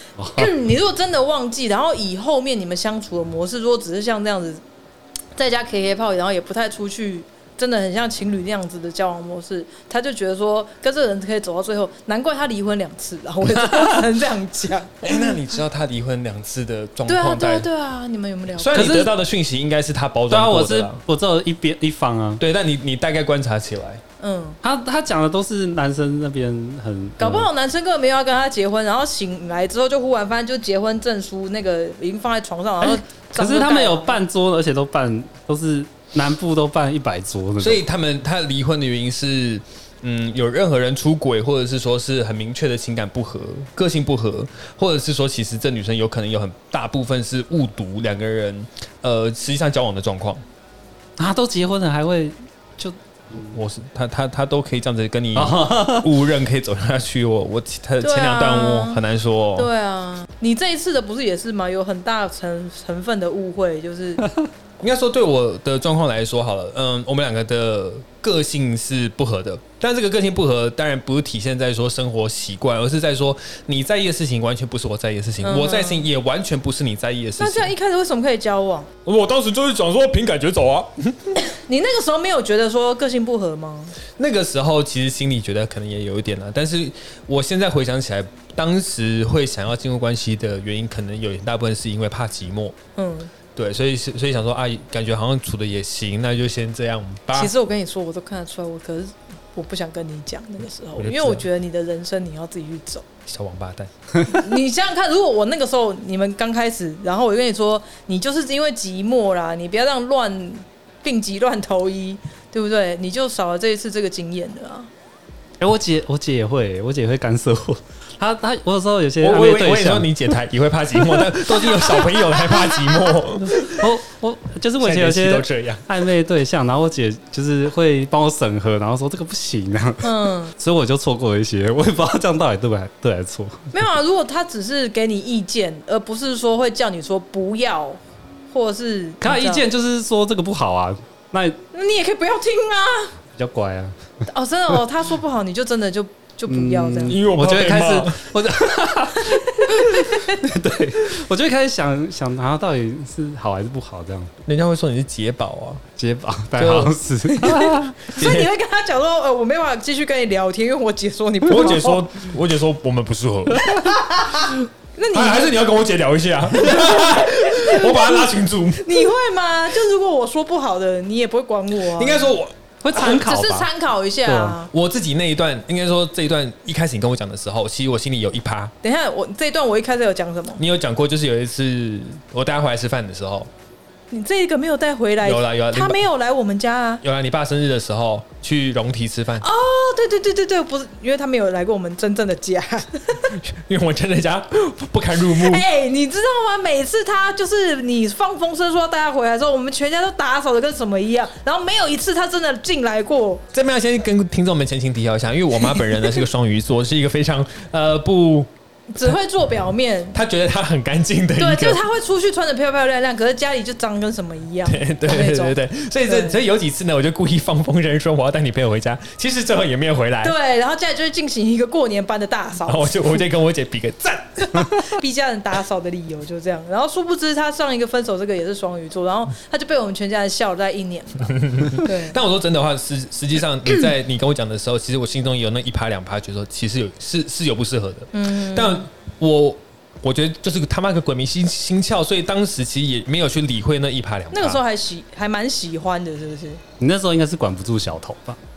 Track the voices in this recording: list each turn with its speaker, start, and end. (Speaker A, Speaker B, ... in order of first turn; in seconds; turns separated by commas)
Speaker A: 0.2-0.5, Speaker B: 0.4-4.6, Speaker B: 5.4-15.4, Speaker C: 15.0-17.7, Speaker B: 17.1-19.1, Speaker C: 18.6-21.0, Speaker A: 18.7-19.1, Speaker A: 20.3-22.4, Speaker C: 22.4-24.0, Speaker B: 24.2-24.6, Speaker A: 24.6-27.5, Speaker B: 27.2-34.2, Speaker A: 32.8-37.8, Speaker C: 37.6-50.4, Speaker A: 51.2-53.6, Speaker C: 53.5-59.7, Speaker A: 55.4-56.1, Speaker B: 58.0-59.0, Speaker B: 59.6-64.2, Speaker C: 64.8-77.7, Speaker B: 75.4-76.1, Speaker B: 77.4-78.9, Speaker C: 79.0-81.4, Speaker B: 81.4-84.0, Speaker C: 84.2-92.8, Speaker B: 93.0-93.3, Speaker C: 93.5-97.5, Speaker B: 97.3-103.1, Speaker C: 101.0-101.5, Speaker C: 103.3-103.9, Speaker B: 104.2-114.9, Speaker A: 115.6-120.2, Speaker C: 119.2-123.9, Speaker A: 121.2-122.0, Speaker A: 123.6-133.7, Speaker C: 124.8-125.9, Speaker B: 130.0-130.5, Speaker B: 133.7-138.0, Speaker B: 138.5-139.6, Speaker A: 139.2-141.6, Speaker B: 141.7-143.2, Speaker A: 143.4-144.0, Speaker B: 144.3-147.2, Speaker A: 146.5-154.3, Speaker C: 147.1-148.3, Speaker B: 149.2-150.4, Speaker C: 154.5-155.8, Speaker A: 156.0-158.0, Speaker C: 156.6-156.9, Speaker B: 157.3-162.0, Speaker C: 158.2-158.5, Speaker C: 161.5-164.4, Speaker B: 163.6-165.6, Speaker C: 165.1-169.1, Speaker B: 166.7-172.3, Speaker C: 171.9-172.6, Speaker A: 172.8-173.7, Speaker B: 172.9-174.7, Speaker A: 174.3-174.6, Speaker C: 174.7-178.7, Speaker B: 178.8-180.6, Speaker C: 180.6-183.5, Speaker B: 184.1-187.0, Speaker C: 185.2-186.0, Speaker C: 187.0-189.5, Speaker B: 189.4-193.4, Speaker C: 193.3-195.7, Speaker B: 195.2-203.4, Speaker C: 203.5-208.5, Speaker B: 208.9-210.2, Speaker C: 210.1-211.8, Speaker B: 211.4-216.4, Speaker C: 214.6-220.3, Speaker B: 220.2-223.2, Speaker C: 222.7-224.9, Speaker B: 224.5-232.2, Speaker C: 231.3-244.6, Speaker B: 238.1-238.9, Speaker B: 244.3-246.6, Speaker A: 246.8-248.4